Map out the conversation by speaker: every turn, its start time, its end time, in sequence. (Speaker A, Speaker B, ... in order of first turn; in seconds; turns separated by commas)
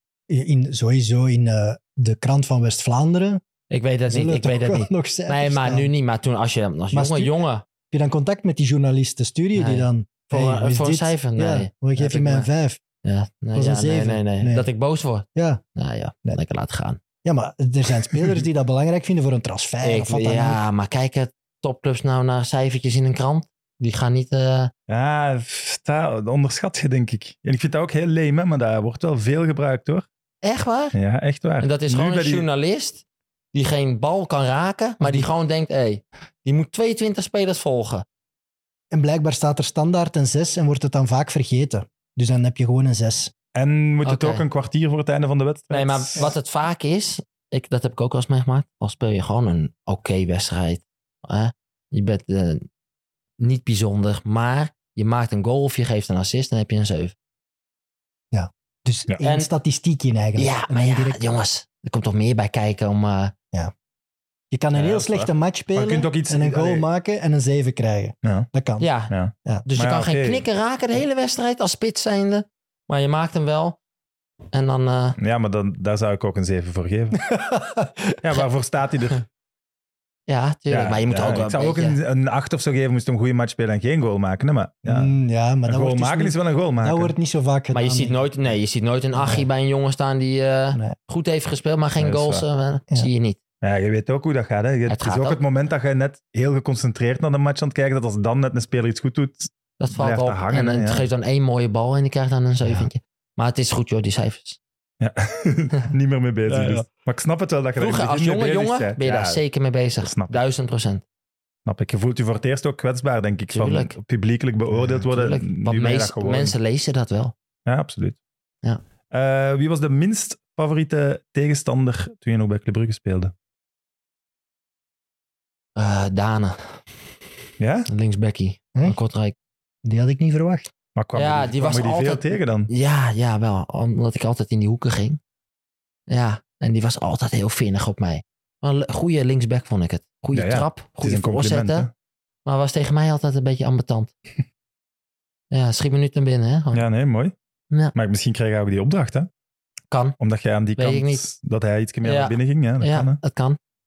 Speaker A: 0.3-3.4, Speaker B: 3.7-7.6, Speaker A: 4.1-5.9, Speaker A: 6.9-7.4, Speaker A: 7.9-12.8, Speaker B: 9.5-12.5, Speaker B: 13.0-17.0, Speaker A: 13.5-14.7, Speaker A: 15.3-15.6, Speaker A: 17.2-20.6, Speaker B: 19.8-24.7, Speaker C: 24.9-30.1, Speaker B: 30.4-30.9, Speaker C: 30.9-32.5, Speaker B: 31.6-33.0, Speaker B: 33.5-38.0, Speaker A: 35.0-35.3, Speaker A: 38.9-43.3, Speaker C: 43.5-46.2, Speaker B: 44.0-44.4, Speaker B: 45.7-52.6, Speaker B: 53.4-57.1, Speaker A: 58.3-61.3, Speaker B: 59.2-59.5, Speaker B: 60.4-63.3, Speaker A: 64.5-68.9, Speaker C: 64.7-66.8, Speaker C: 68.2-68.5, Speaker B: 68.8-69.1, Speaker C: 69.1-70.4, Speaker B: 69.6-73.8, Speaker B: 74.5-75.2, Speaker C: 75.2-77.2, Speaker A: 77.2-78.1, Speaker C: 78.2-79.2, Speaker B: 80.3-82.0, Speaker C: 80.7-85.1, Speaker A: 84.8-88.3, Speaker C: 85.7-87.1, Speaker B: 87.7-93.4, Speaker A: 89.1-89.5, Speaker C: 92.0-92.4, Speaker C: 93.6-101.1, Speaker B: 94.9-95.4, Speaker B: 99.8-104.6, Speaker A: 102.6-102.9, Speaker C: 105.0-109.4, Speaker B: 106.5-106.8, Speaker B: 107.8-111.0, Speaker C: 110.0-110.3, Speaker C: 111.7-116.5, Speaker B: 113.5-113.9, Speaker B: 114.9-117.3, Speaker C: 117.7-118.2, Speaker C: 119.1-123.3, Speaker B: 125.8-126.8, Speaker C: 127.6-127.9, Speaker B: 127.9-129.3, Speaker A: 129.8-130.7, Speaker C: 130.9-132.7, Speaker B: 131.1-135.2, Speaker B: 136.1-141.9, Speaker C: 140.3-141.9, Speaker B: 142.4-144.1, Speaker B: 145.5-146.8, Speaker C: 146.7-147.3, Speaker C: 147.9-149.3, Speaker B: 149.9-150.2, Speaker C: 150.2-153.2, Speaker B: 150.8-151.2, Speaker B: 152.0-153.6